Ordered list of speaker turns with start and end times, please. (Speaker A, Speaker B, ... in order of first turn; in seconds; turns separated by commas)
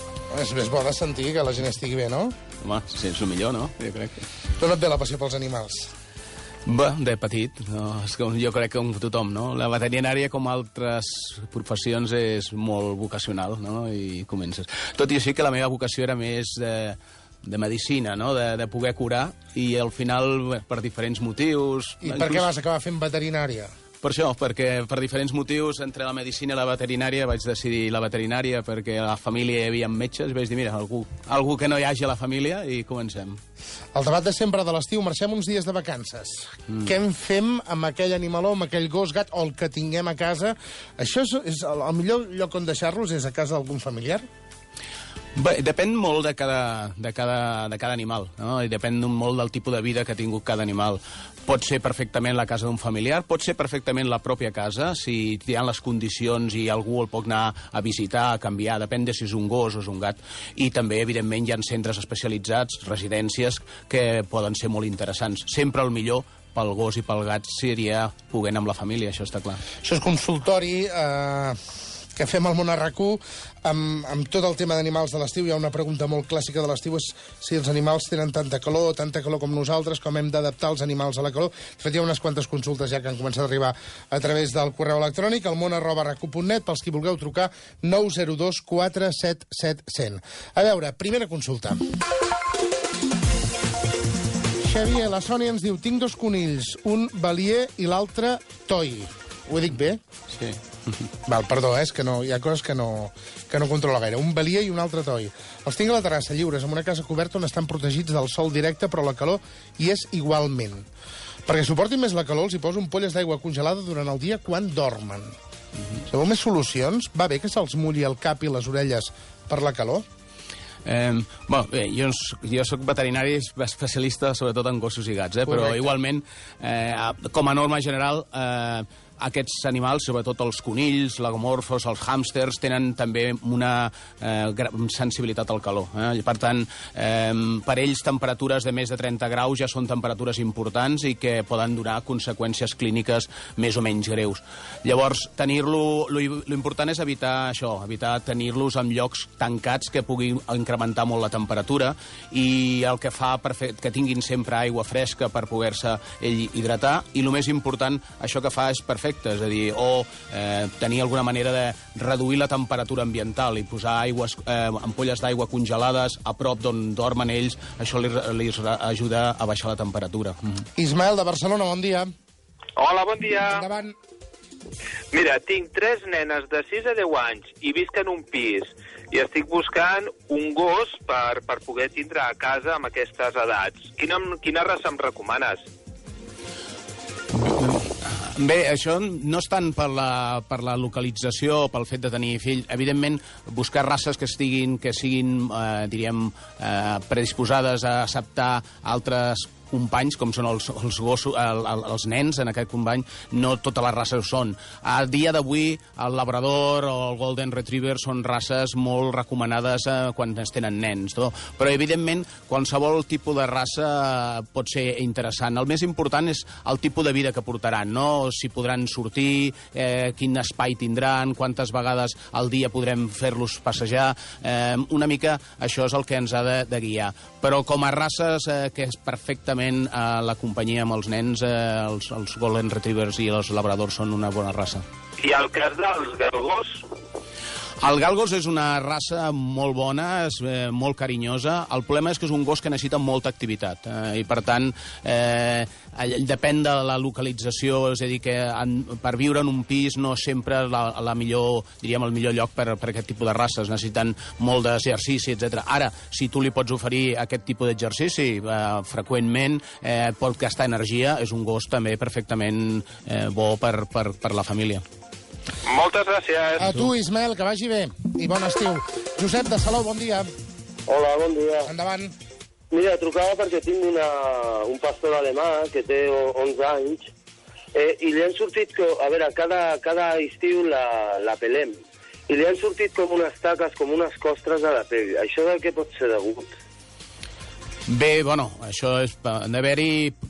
Speaker A: 0.3-2.3, Speaker B: 2.6-4.3, Speaker A: 4.6-5.9, Speaker B: 6.7-22.5, Speaker A: 22.0-23.7, Speaker B: 24.0-33.4, Speaker A: 33.9-44.2, Speaker B: 45.4-69.6, Speaker A: 69.8-71.5, Speaker A: 72.2-91.8, Speaker A: 94.6-100.0, Speaker B: 100.3-101.0, Speaker A: 101.3-110.8, Speaker A: 111.5-115.3, Speaker A: 116.1-120.0, Speaker B: 120.8-170.7, Speaker A: 125.5-125.9, Speaker A: 170.8-172.1, Speaker C: 172.8-173.6, Speaker A: 173.4-173.9, Speaker C: 175.1-185.6, Speaker B: 187.3-234.8, Speaker C: 235.2-236.8, Speaker B: 237.8-264.8, Speaker C: 265.6-266.9, Speaker A: 266.6-270.3, Speaker D: 270.9-271.7, Speaker A: 271.6-272.1, Speaker D: 272.7-277.1, Speaker D: 277.7-286.5, Speaker B: 287.9-290.1